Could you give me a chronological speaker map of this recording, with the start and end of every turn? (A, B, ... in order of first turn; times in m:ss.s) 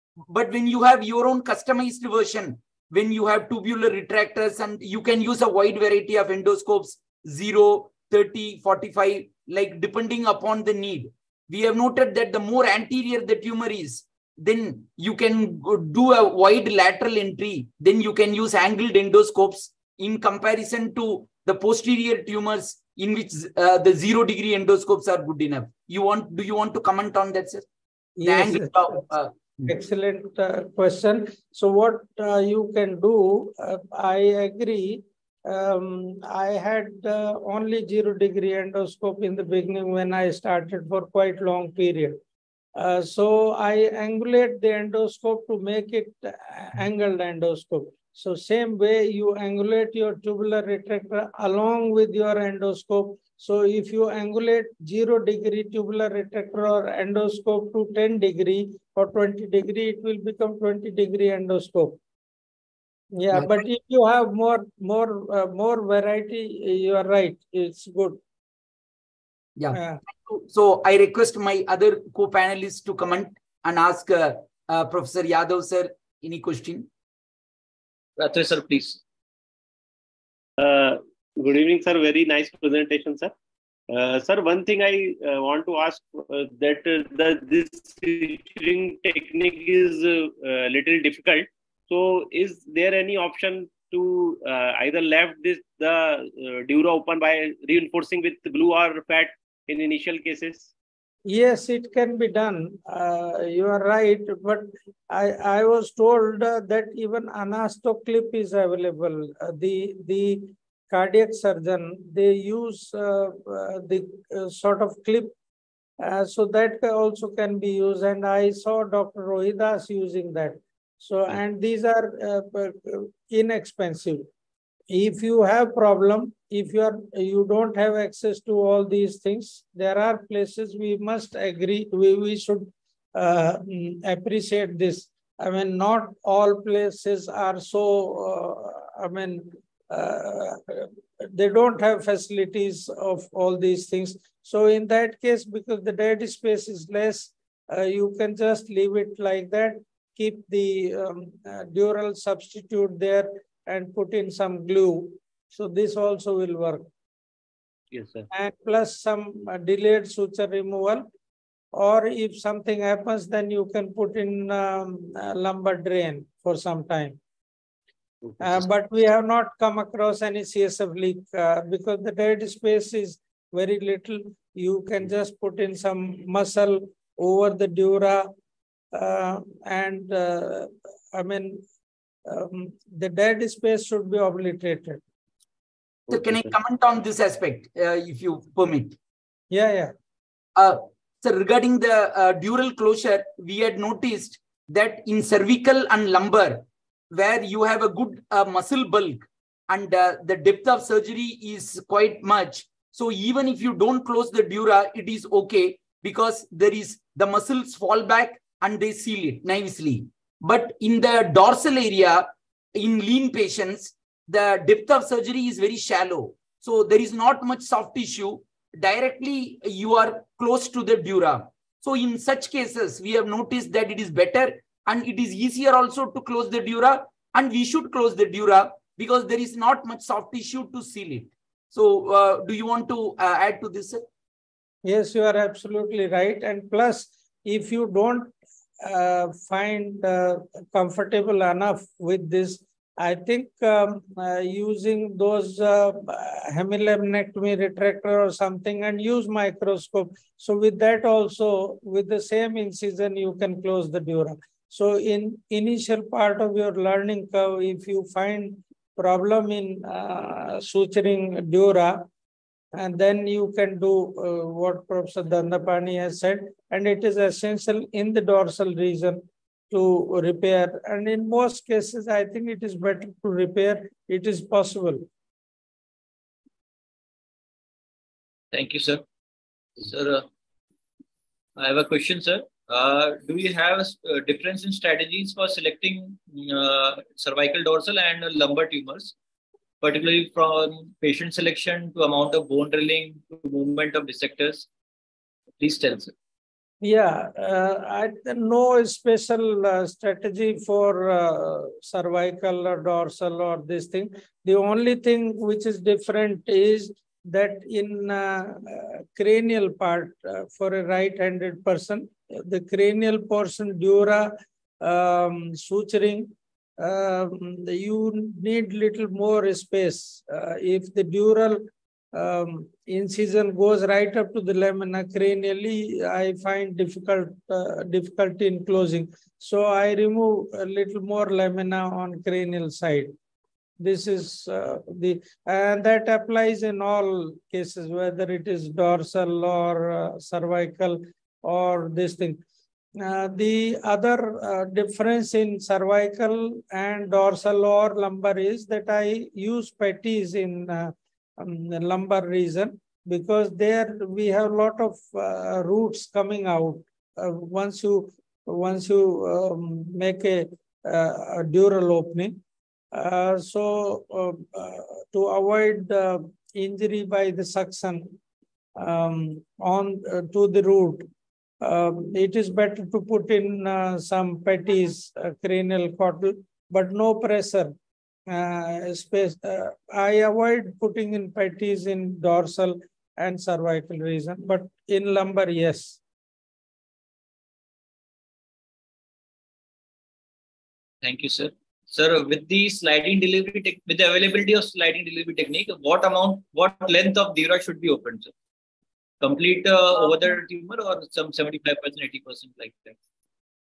0:00.3-0:27.6 A
0:28.2-0:29.0 B
0:28.2-0:29.6 A
0:29.7-0:42.2 B
0:42.8-1:02.0 B
1:03.2-1:08.2 B
1:03.3-1:03.6 A
1:09.6-1:16.9 A
1:09.7-1:10.0 B
1:18.2-1:19.0 C
1:20.6-1:23.3 D
1:23.9-1:40.7 D
1:41.3-1:55.3 B
1:56.0-2:04.3 B
2:04.9-2:36.8 B
2:37.9-2:38.3 D
2:38.3-2:41.0 B
2:41.8-2:47.2 B
2:48.2-2:48.6 D
2:48.4-2:58.3 B
2:58.9-3:01.6 B
3:02.3-3:05.0 B
3:06.1-3:06.5 D
3:06.1-3:09.0 A
3:09.5-3:09.9 B
3:10.6-3:54.0 A
3:54.8-3:58.3 B
3:58.8-4:22.1 B
4:22.8-4:35.0 B
4:38.5-4:39.0 C
4:39.8-4:40.3 C
4:41.6-4:49.1 C
4:49.8-4:54.7 C
4:55.6-4:56.1 C
4:56.8-5:33.1 B
5:33.8-5:42.4 B
5:43.0-6:02.4 B
6:02.9-6:08.1 B
6:08.8-6:11.0 B
6:11.6-6:17.7 B
6:18.3-6:26.0 B
6:31.0-6:38.3 C
6:39.2-6:43.0 C